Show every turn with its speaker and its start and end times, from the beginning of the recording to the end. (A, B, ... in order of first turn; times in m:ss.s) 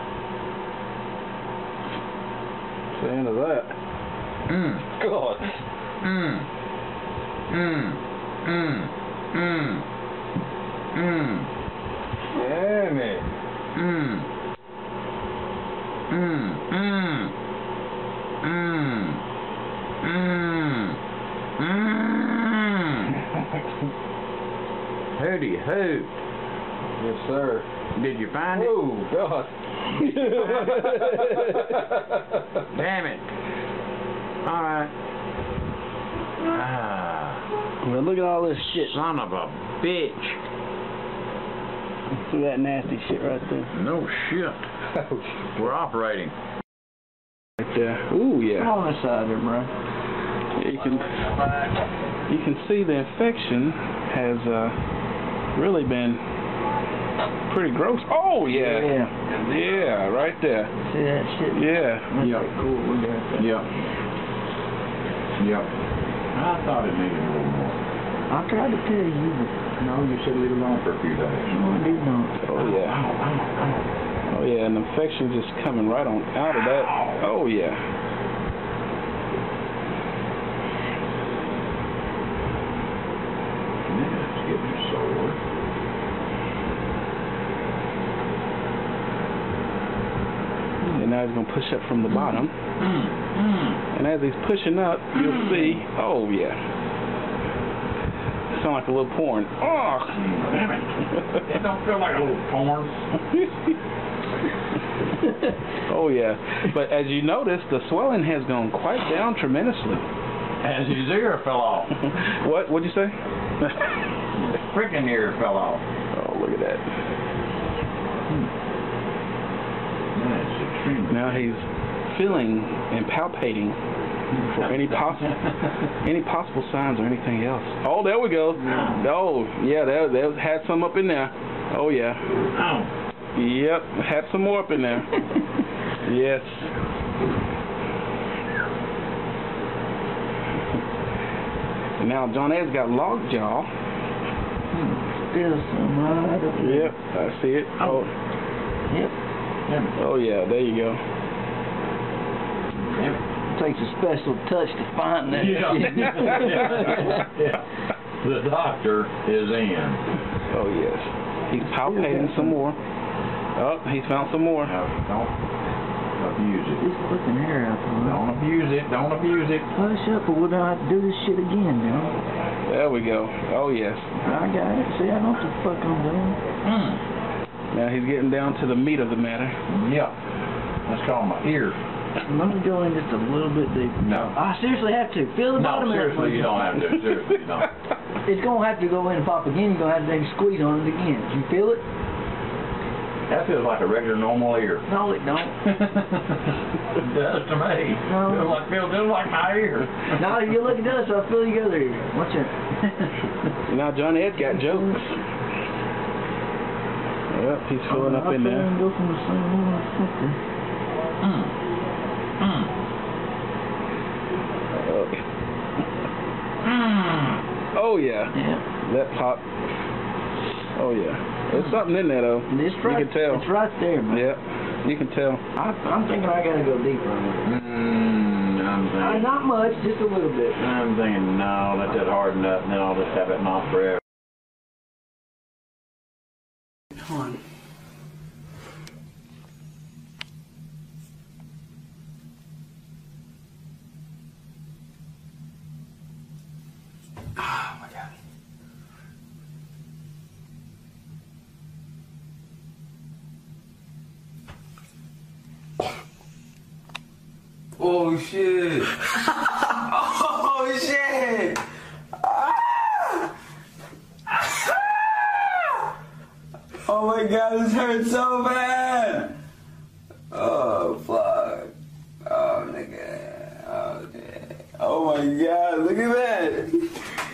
0:03.0-0:03.7 A
0:04.5-0:04.9 B
0:05.1-0:05.3 A
0:06.0-0:06.5 B
0:07.5-0:09.8 B
0:10.9-0:11.5 B
0:12.4-0:13.2 A
0:12.5-0:13.0 C
0:13.8-0:14.3 B
0:16.1-0:17.3 B
0:18.4-0:19.2 B
0:20.0-0:21.0 B
0:21.6-0:23.2 B
0:25.2-0:26.1 B
0:27.9-0:28.9 B
0:30.0-0:31.6 A
0:30.1-0:31.3 B
0:32.7-0:33.3 B
0:34.4-0:34.9 B
0:36.4-0:37.5 B
0:37.8-0:39.0 D
0:38.7-0:40.4 B
0:42.1-0:43.7 D
0:43.7-0:44.6 B
0:45.5-0:46.3 B
0:47.6-0:48.7 A
0:48.6-0:49.7 D
0:50.6-0:51.2 A
0:52.3-0:54.8 A
0:55.6-0:56.2 A
0:57.5-1:00.7 A
0:58.4-0:59.1 D
1:00.8-1:03.5 D
1:01.6-1:02.1 A
1:02.2-1:02.5 B
1:03.4-1:03.7 B
1:05.4-1:05.7 B
1:06.3-1:07.8 B
1:08.3-1:09.8 D
1:09.8-1:11.6 B
1:11.5-1:12.4 D
1:12.4-1:13.0 A
1:12.5-1:13.8 B
1:14.3-1:17.8 A
1:16.7-1:17.2 B
1:23.9-1:25.4 B
1:30.9-1:32.5 A
1:32.8-1:33.8 B
1:33.9-1:36.6 A
1:35.2-1:35.8 B
1:38.5-1:40.2 A
1:40.1-1:43.0 B
1:45.9-1:50.1 A
1:50.6-1:52.0 B
1:52.1-1:53.9 A
1:54.4-1:55.8 B
1:56.1-1:56.8 A
2:00.2-2:01.5 B
2:01.1-2:03.8 A
2:04.4-2:05.3 B
2:04.5-2:05.3 A
2:06.0-2:12.2 A
2:08.7-2:09.0 B
2:12.5-2:12.9 B
2:13.4-2:15.2 A
2:16.0-2:16.7 A
2:22.0-2:23.7 A
2:24.7-2:25.0 B
2:25.1-2:27.0 D
2:26.6-2:28.1 A
2:28.9-2:29.1 D
2:29.7-2:29.9 B
2:30.0-2:31.0 A
2:32.8-2:33.2 B
2:33.5-2:37.2 D
2:35.3-2:37.7 B
2:38.2-2:40.0 B
2:40.5-2:42.8 A
2:41.8-2:42.6 D
2:43.6-2:44.7 A
2:44.6-2:45.3 B
2:46.2-2:46.8 B
2:46.8-2:48.2 D
2:48.0-2:49.7 B
2:49.7-2:52.2 D
2:52.7-2:54.1 A
2:54.2-2:56.4 D
2:56.6-2:57.0 B
2:57.7-2:59.6 A
2:59.7-3:00.1 B
3:00.9-3:01.8 B
3:02.2-3:06.6 D
3:04.0-3:04.4 B
3:05.6-3:07.7 B
3:08.2-3:11.8 D
3:13.3-3:14.8 B
3:14.9-3:15.6 D
3:15.6-3:20.2 B
3:18.0-3:18.6 D
3:20.2-3:22.5 D
3:23.7-3:25.2 A
3:24.6-3:24.9 D
3:27.3-3:28.7 A
3:27.9-3:30.4 D
3:31.2-3:31.5 B
3:32.4-3:32.7 B
3:34.8-3:35.2 A
3:36.6-3:37.4 B
3:37.8-3:39.4 A
3:38.4-3:38.6 D
3:40.8-3:43.4 A
3:42.5-3:44.3 D
3:44.1-3:45.4 A
3:45.6-3:47.4 D
3:47.4-3:49.4 B
3:49.0-3:50.6 D
3:50.6-3:54.0 B
4:17.8-4:19.0 C
4:19.7-4:21.6 C
4:22.2-4:23.3 C
4:24.5-4:25.8 C
4:26.9-4:29.4 C
4:30.3-4:31.7 C
4:32.2-4:37.0 C